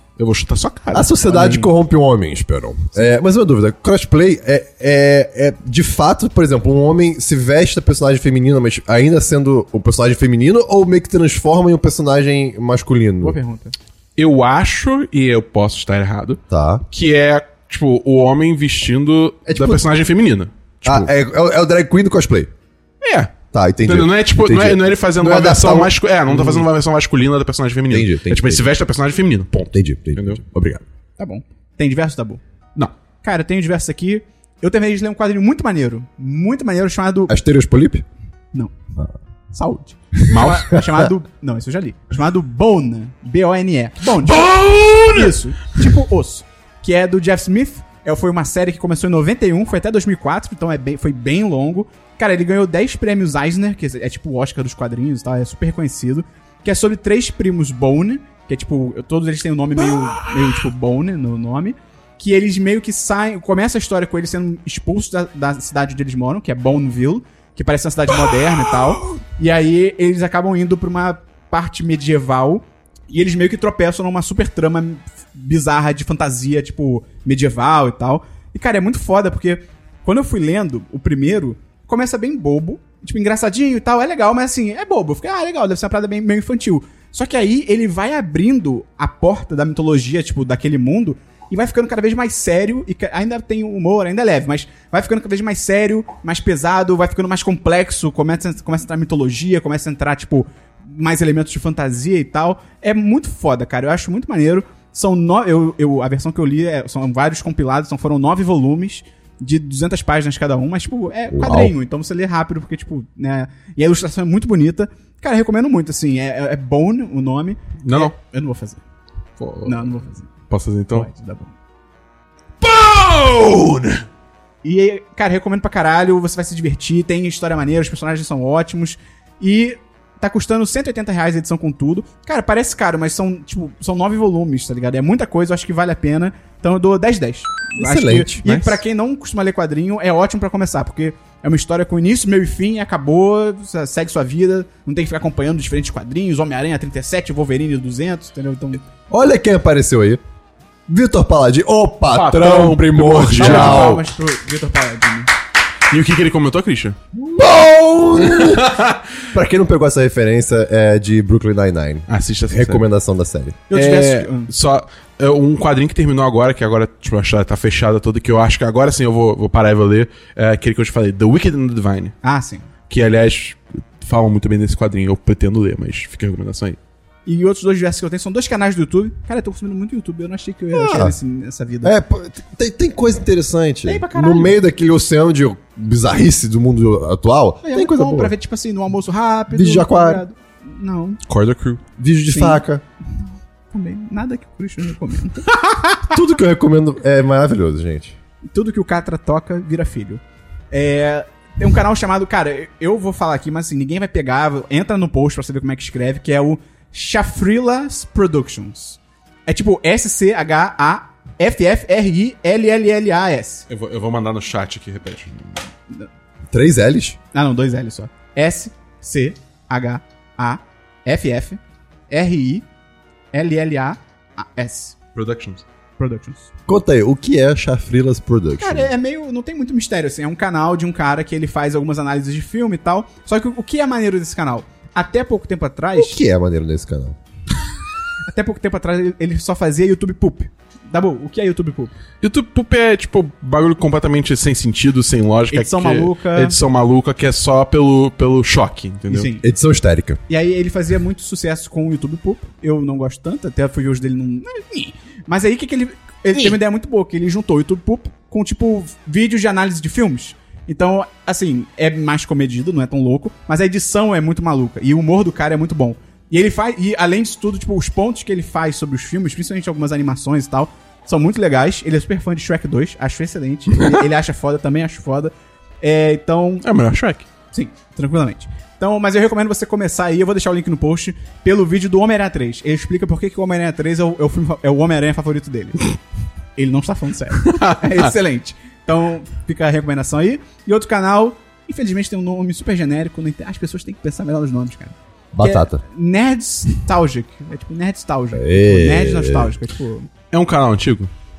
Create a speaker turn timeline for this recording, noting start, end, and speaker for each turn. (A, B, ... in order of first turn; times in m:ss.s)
0:00.2-0:01.1 A
0:00.9-0:13.4 B
0:01.3-0:01.7 C
0:13.2-0:13.7 C
0:14.2-0:21.1 A
0:16.5-0:16.8 B
0:19.5-0:19.8 B
0:20.8-0:22.5 B
0:23.0-0:30.4 A
0:23.5-0:26.6 B
0:27.9-0:28.7 B
0:29.7-0:30.8 B
0:31.2-0:32.4 C
0:33.2-0:37.3 C
0:37.3-0:38.0 B
0:39.5-0:44.5 C
0:40.3-0:40.8 A
0:44.2-0:45.4 A
0:45.1-1:58.8 C
1:00.0-1:00.3 A
1:51.3-1:51.7 B
1:57.8-1:58.1 A
1:59.4-1:59.9 A
1:59.6-2:00.3 C
2:00.5-2:01.1 A
2:00.9-2:01.5 C
2:02.6-2:04.0 A
2:04.6-2:28.8 C
2:17.8-2:18.4 B
2:18.4-2:18.8 A
2:29.1-2:30.2 B
2:30.9-2:34.0 B
2:32.1-2:34.0 A
2:33.4-2:35.3 C
2:35.9-2:37.0 A
2:37.1-2:43.6 B
2:38.2-2:39.0 A
2:42.1-2:42.8 A
2:43.7-2:44.5 C
2:43.7-2:52.2 A
2:52.2-2:52.7 C
2:52.9-2:56.8 A
2:57.2-3:01.9 C
3:00.7-3:01.2 B
3:01.8-3:08.3 B
3:03.8-3:04.6 C
3:07.6-3:11.2 C
3:09.5-3:10.2 B
3:11.3-3:11.8 A
3:12.0-3:12.8 B
3:12.3-3:12.6 C
3:13.7-3:16.0 C
3:16.1-3:18.2 B
3:18.5-3:33.6 C
3:33.7-3:35.6 A
3:36.5-3:37.2 B
3:37.3-3:42.6 C
3:43.3-3:44.9 C
3:45.1-3:45.6 A
3:46.0-3:46.5 C
3:46.7-3:48.9 B
3:48.6-3:56.2 C
3:55.9-3:57.2 B
3:58.3-4:01.9 C
4:02.2-4:09.3 A
4:05.5-4:06.6 C
4:09.1-4:09.4 C
4:09.4-4:10.2 B
4:10.3-4:36.7 C
4:36.6-4:37.2 A
4:37.5-4:45.8 C
4:46.6-5:00.1 C
4:47.4-4:48.1 A
4:55.3-4:55.8 B
4:58.3-4:59.5 B
5:00.3-5:01.1 A